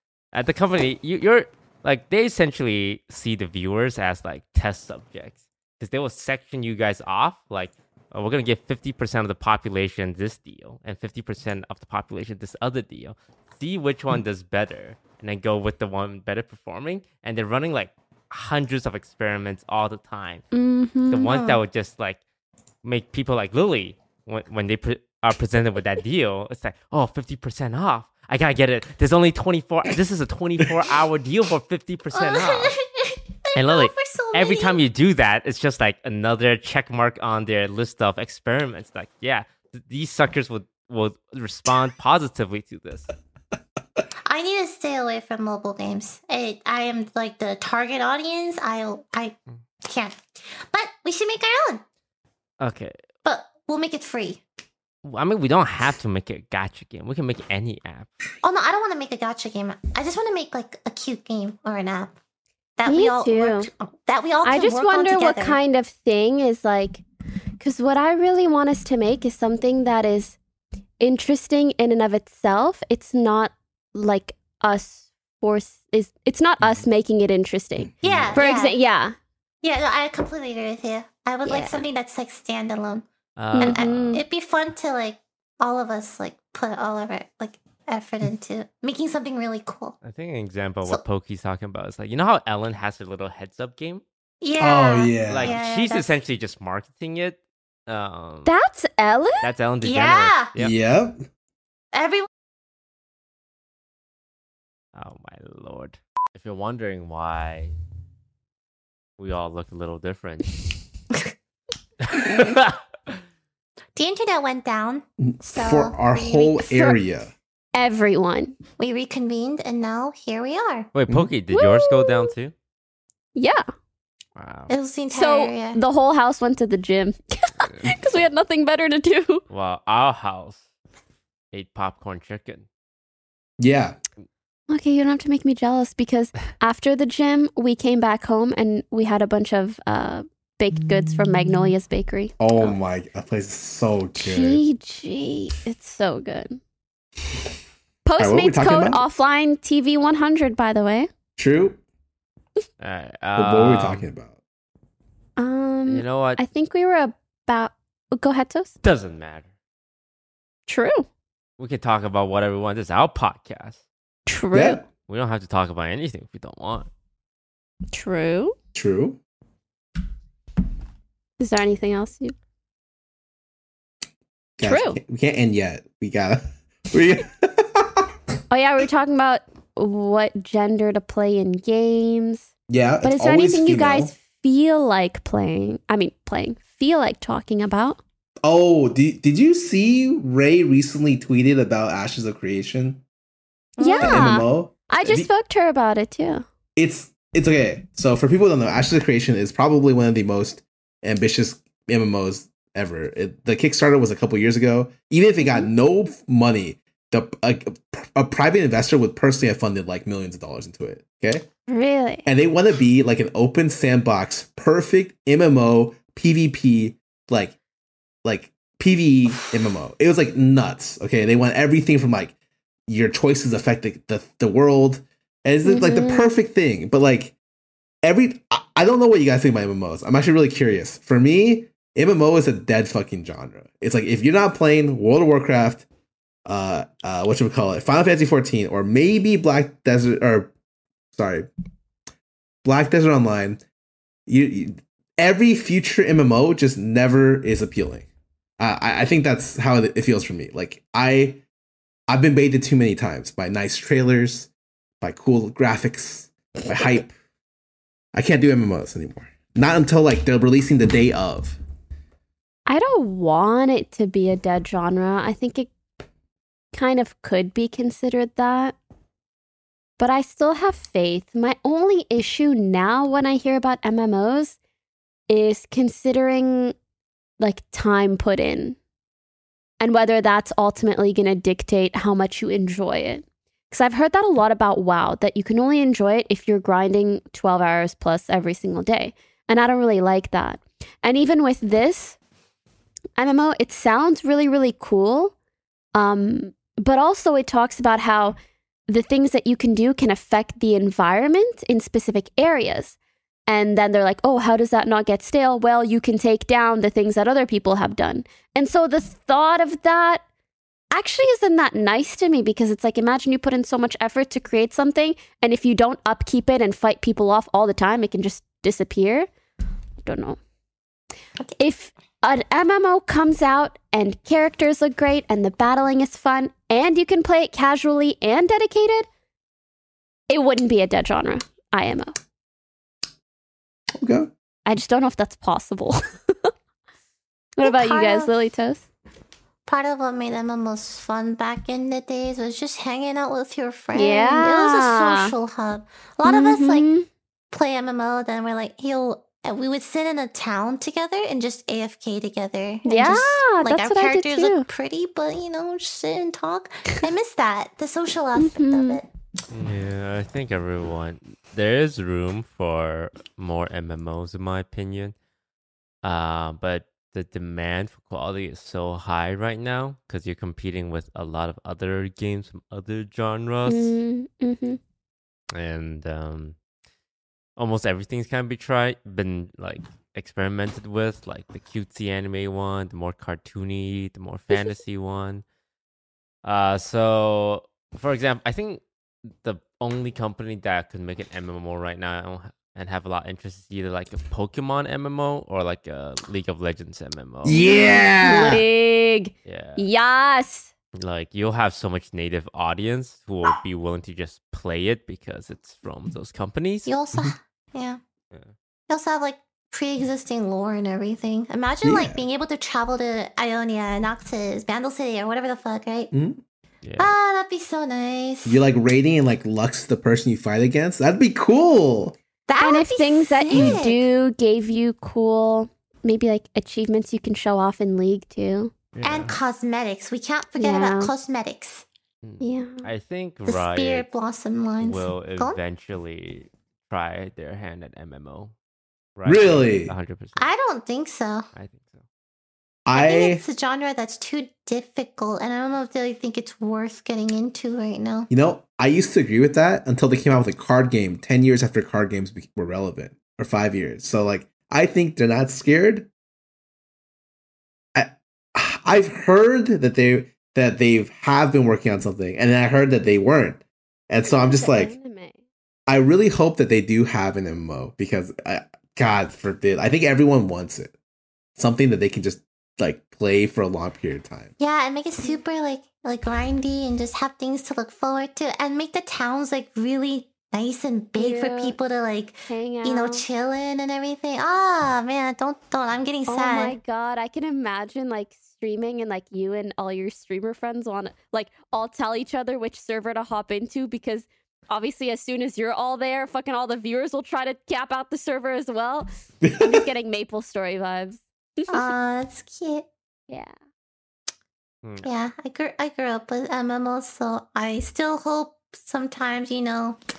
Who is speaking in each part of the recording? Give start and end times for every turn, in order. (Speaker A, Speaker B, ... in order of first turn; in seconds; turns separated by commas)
Speaker A: 0.3-20.4, Speaker B: 20.5-21.3, Speaker A: 21.1-22.2, Speaker C: 21.3-21.6, Speaker A: 22.8-32.7, Speaker C: 32.1-34.8, Speaker A: 33.5-43.1, Speaker C: 44.2-51.8, Speaker A: 52.6-52.9, Speaker C: 53.2-54.4, Speaker A: 55.0-58.1, Speaker C: 58.4-62.1, Speaker C: 62.8-65.6, Speaker B: 62.9-63.7, Speaker B: 64.4-67.0, Speaker B: 67.6-70.4, Speaker B: 71.0-79.2, Speaker D: 78.0-78.4, Speaker C: 78.0-78.8, Speaker C: 79.6-83.0, Speaker B: 81.5-81.8, Speaker A: 83.3-84.2, Speaker B: 83.5-84.2, Speaker C: 83.6-90.0, Speaker A: 90.0-94.0, Speaker C: 94.4-96.2, Speaker D: 94.6-95.6, Speaker A: 95.3-98.5, Speaker B: 98.5-99.5, Speaker A: 99.4-100.7, Speaker C: 99.8-100.5, Speaker D: 100.5-101.2, Speaker C: 101.9-102.3, Speaker A: 104.9-107.7, Speaker A: 109.2-110.6, Speaker A: 112.0-113.2, Speaker C: 114.0-116.5, Speaker D: 115.2-117.3, Speaker B: 116.4-117.0, Speaker B: 117.7-118.5, Speaker C: 118.8-120.9, Speaker A: 120.9-122.5, Speaker B: 121.5-122.3, Speaker B: 123.3-123.6, Speaker A: 124.3-124.7, Speaker C: 124.7-125.8, Speaker B: 125.1-129.4, Speaker A: 129.5-130.6, Speaker A: 131.5-132.7, Speaker D: 133.6-134.0, Speaker B: 134.7-142.7, Speaker D: 142.4-144.6, Speaker B: 144.2-146.6, Speaker B: 148.0-151.1, Speaker D: 148.2-149.0, Speaker D: 151.4-151.8, Speaker A: 152.8-154.1, Speaker D: 153.4-154.3, Speaker B: 155.4-158.7, Speaker A: 155.9-156.4, Speaker A: 158.8-159.5, Speaker B: 160.7-161.1, Speaker A: 161.6-163.8, Speaker B: 164.3-164.8, Speaker D: 164.5-164.8, Speaker A: 165.1-166.9, Speaker B: 167.9-168.5, Speaker D: 168.7-169.2, Speaker B: 171.4-172.3, Speaker D: 174.6-178.1, Speaker B: 174.6-175.0, Speaker B: 178.5-182.5, Speaker D: 182.7-184.1, Speaker B: 183.0-188.0, Speaker D: 188.4-193.0, Speaker C: 193.8-194.3, Speaker B: 193.8-196.4, Speaker D: 194.0-195.3, Speaker D: 196.8-211.4, Speaker B: 205.4-205.7, Speaker B: 211.7-212.3, Speaker D: 212.2-217.5, Speaker D: 218.2-222.3, Speaker D: 222.9-227.3, Speaker B: 225.6-226.3, Speaker D: 228.0-235.8, Speaker D: 236.4-240.5, Speaker D: 241.1-241.5, Speaker D: 242.6-243.6, Speaker D: 244.3-248.1, Speaker D: 248.6-251.4, Speaker D: 252.1-254.5, Speaker D: 255.0-257.1, Speaker D: 258.1-261.6, Speaker B: 262.6-265.7, Speaker B: 266.7-268.8, Speaker B: 270.0-274.6, Speaker B: 275.3-276.7, Speaker B: 277.4-278.8, Speaker B: 279.8-292.2, Speaker B: 293.2-295.3, Speaker B: 295.9-302.9, Speaker B: 303.5-310.2, Speaker B: 310.9-319.3, Speaker B: 320.0-320.4, Speaker B: 321.6-329.1, Speaker B: 330.3-332.1, Speaker D: 334.0-334.3, Speaker B: 334.6-336.5, Speaker B: 337.6-338.8, Speaker C: 337.6-338.3, Speaker C: 339.7-346.9, Speaker B: 343.9-345.3, Speaker B: 346.2-347.1, Speaker C: 347.5-359.1, Speaker B: 352.9-354.6, Speaker B: 358.4-359.0, Speaker A: 359.5-365.1, Speaker A: 366.0-374.0, Speaker B: 373.6-374.8, Speaker A: 375.5-376.6, Speaker A: 377.6-385.4, Speaker B: 384.5-384.8, Speaker A: 386.4-388.8, Speaker A: 389.4-397.7, Speaker D: 397.4-398.6, Speaker B: 397.6-400.7, Speaker A: 399.4-399.8, Speaker A: 400.9-406.9, Speaker C: 406.9-408.0, Speaker C: 408.9-416.1, Speaker D: 411.8-412.2, Speaker D: 416.1-416.4, Speaker A: 416.8-417.1, Speaker C: 417.0-418.6, Speaker D: 418.4-422.1, Speaker C: 422.5-424.1, Speaker B: 422.6-428.7, Speaker A: 428.9-429.4, Speaker C: 429.0-431.8, Speaker B: 430.6-431.1, Speaker A: 432.2-434.1, Speaker B: 432.4-432.9, Speaker C: 433.4-435.6, Speaker A: 434.8-438.5, Speaker A: 439.1-440.5, Speaker D: 439.2-439.9, Speaker C: 440.4-441.4, Speaker A: 441.5-442.0, Speaker D: 442.9-443.4, Speaker C: 442.9-448.3, Speaker D: 448.3-456.1, Speaker D: 457.9-464.9, Speaker B: 464.2-465.4, Speaker D: 465.9-470.9, Speaker D: 471.6-474.5, Speaker C: 474.6-486.8, Speaker B: 481.2-481.8, Speaker B: 482.5-483.2, Speaker B: 486.3-501.9, Speaker D: 499.4-499.8, Speaker C: 501.7-502.9, Speaker B: 503.3-503.5, Speaker C: 505.0-510.0